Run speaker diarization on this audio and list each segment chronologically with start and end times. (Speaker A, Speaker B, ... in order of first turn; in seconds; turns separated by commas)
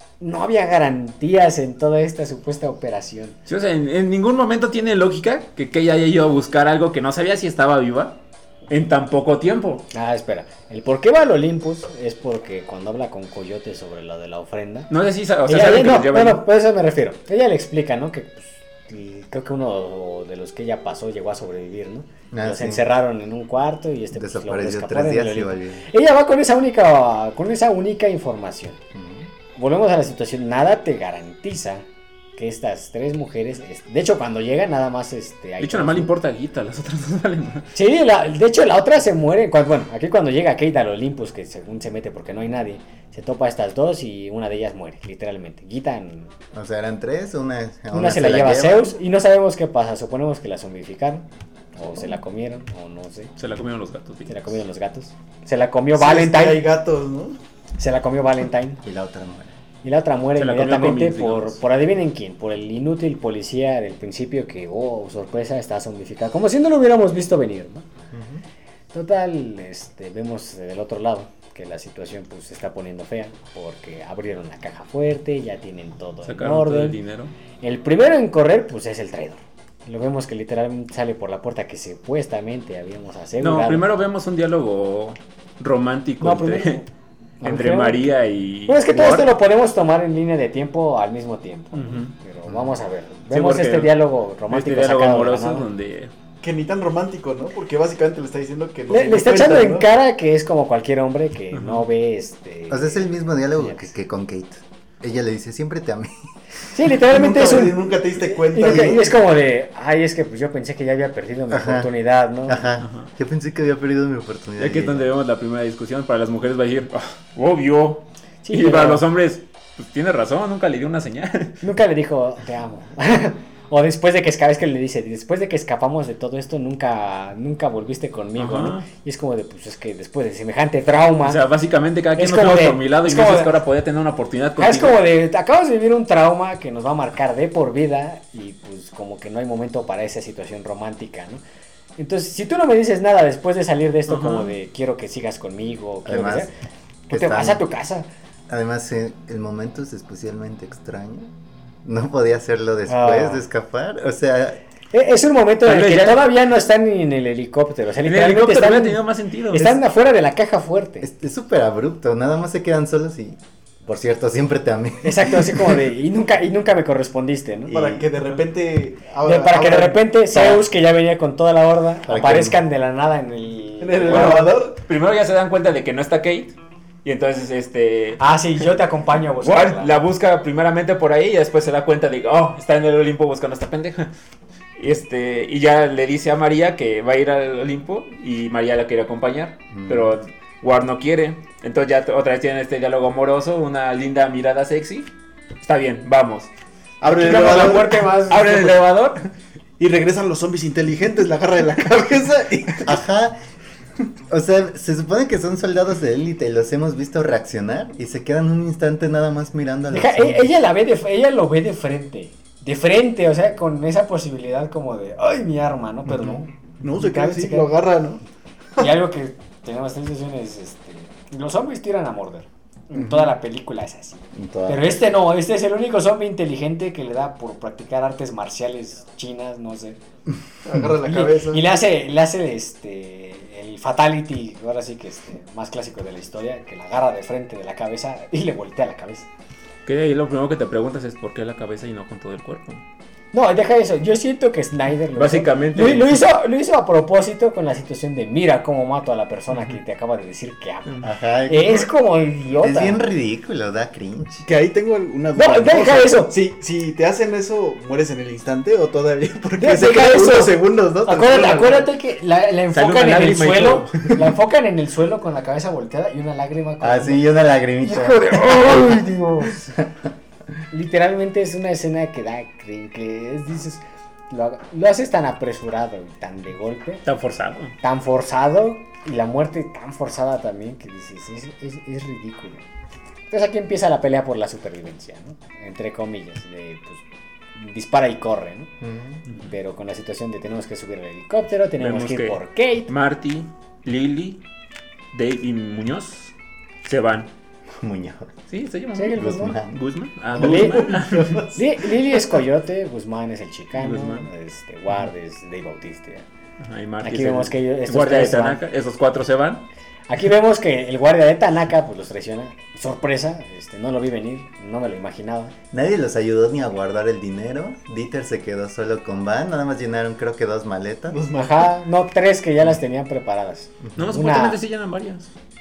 Speaker A: 0.2-3.4, Speaker B: 3.5-8.2, Speaker B: 8.7-9.8, Speaker A: 9.9-14.9, Speaker B: 14.9-16.4, Speaker A: 15.4-28.8, Speaker C: 22.3-22.9, Speaker C: 24.1-25.8, Speaker C: 28.9-29.3, Speaker A: 29.6-31.8, Speaker A: 32.4-36.1, Speaker B: 35.6-37.7, Speaker A: 37.7-46.3, Speaker C: 46.5-48.9, Speaker A: 47.9-53.3, Speaker B: 53.4-54.6, Speaker A: 54.3-56.6, Speaker D: 55.9-57.4, Speaker A: 57.8-58.8, Speaker C: 58.8-59.5, Speaker A: 59.8-67.8, Speaker B: 60.4-61.6, Speaker C: 68.1-68.4, Speaker A: 68.9-77.0, Speaker B: 76.2-77.3, Speaker A: 77.6-83.9, Speaker B: 83.4-86.8, Speaker A: 86.2-86.9, Speaker A: 87.4-88.1, Speaker B: 87.4-89.3, Speaker A: 88.7-95.7, Speaker B: 91.7-92.1, Speaker C: 92.5-92.8, Speaker B: 93.3-96.1, Speaker D: 96.4-99.9, Speaker A: 98.9-103.9, Speaker B: 101.5-101.8, Speaker C: 102.7-106.3, Speaker A: 106.7-112.7, Speaker D: 107.0-109.2, Speaker C: 111.5-111.9, Speaker C: 112.5-115.2, Speaker B: 112.8-113.1, Speaker B: 114.6-121.6, Speaker A: 118.4-119.0, Speaker A: 121.6-131.4, Speaker B: 128.4-128.8, Speaker B: 131.2-135.0, Speaker A: 132.2-133.6, Speaker A: 134.6-141.4, Speaker A: 142.0-146.5, Speaker B: 144.1-144.5, Speaker C: 146.0-146.5, Speaker A: 147.1-148.1, Speaker C: 147.1-147.7, Speaker C: 148.5-151.3, Speaker C: 151.8-154.6, Speaker A: 152.9-153.4, Speaker A: 154.9-161.1, Speaker B: 155.7-156.3, Speaker B: 158.0-159.8, Speaker C: 161.0-165.8, Speaker A: 165.0-167.9, Speaker C: 167.7-168.1, Speaker D: 167.7-170.6, Speaker A: 169.2-174.6, Speaker C: 172.1-172.6, Speaker D: 173.8-174.8, Speaker B: 174.1-178.2, Speaker A: 178.2-180.0, Speaker B: 179.4-184.1, Speaker B: 184.8-195.1, Speaker C: 189.7-190.1, Speaker B: 195.6-196.5, Speaker D: 197.0-198.1, Speaker A: 197.0-198.8, Speaker B: 197.2-199.3, Speaker D: 199.8-202.9, Speaker C: 202.8-203.4, Speaker C: 204.3-210.5, Speaker A: 209.9-217.7, Speaker D: 216.8-218.2, Speaker A: 218.8-230.0, Speaker C: 222.9-223.2, Speaker C: 224.3-225.1, Speaker D: 230.6-231.6, Speaker A: 231.0-239.3, Speaker B: 239.8-242.8, Speaker A: 243.3-253.0, Speaker B: 245.1-246.2, Speaker C: 251.0-251.9, Speaker C: 252.5-254.5, Speaker D: 254.4-261.9, Speaker A: 255.3-256.3, Speaker A: 259.6-267.3, Speaker B: 262.7-264.3, Speaker C: 266.8-269.1, Speaker A: 267.8-269.7, Speaker A: 270.7-277.0, Speaker B: 277.1-277.7, Speaker A: 277.8-282.6, Speaker A: 283.3-287.0, Speaker A: 287.5-288.7, Speaker C: 288.8-289.2, Speaker A: 289.3-292.9, Speaker B: 291.8-294.4, Speaker B: 295.1-296.3, Speaker B: 296.8-297.3, Speaker C: 297.8-298.3, Speaker B: 298.5-301.4, Speaker A: 298.9-299.6, Speaker C: 299.1-299.8, Speaker A: 300.4-301.0, Speaker D: 300.4-301.6, Speaker A: 301.5-306.2, Speaker B: 303.7-304.2, Speaker B: 306.6-309.6, Speaker A: 307.0-308.6, Speaker A: 310.1-315.5, Speaker C: 315.7-321.2, Speaker D: 321.1-321.7, Speaker A: 321.3-324.6, Speaker B: 324.0-325.3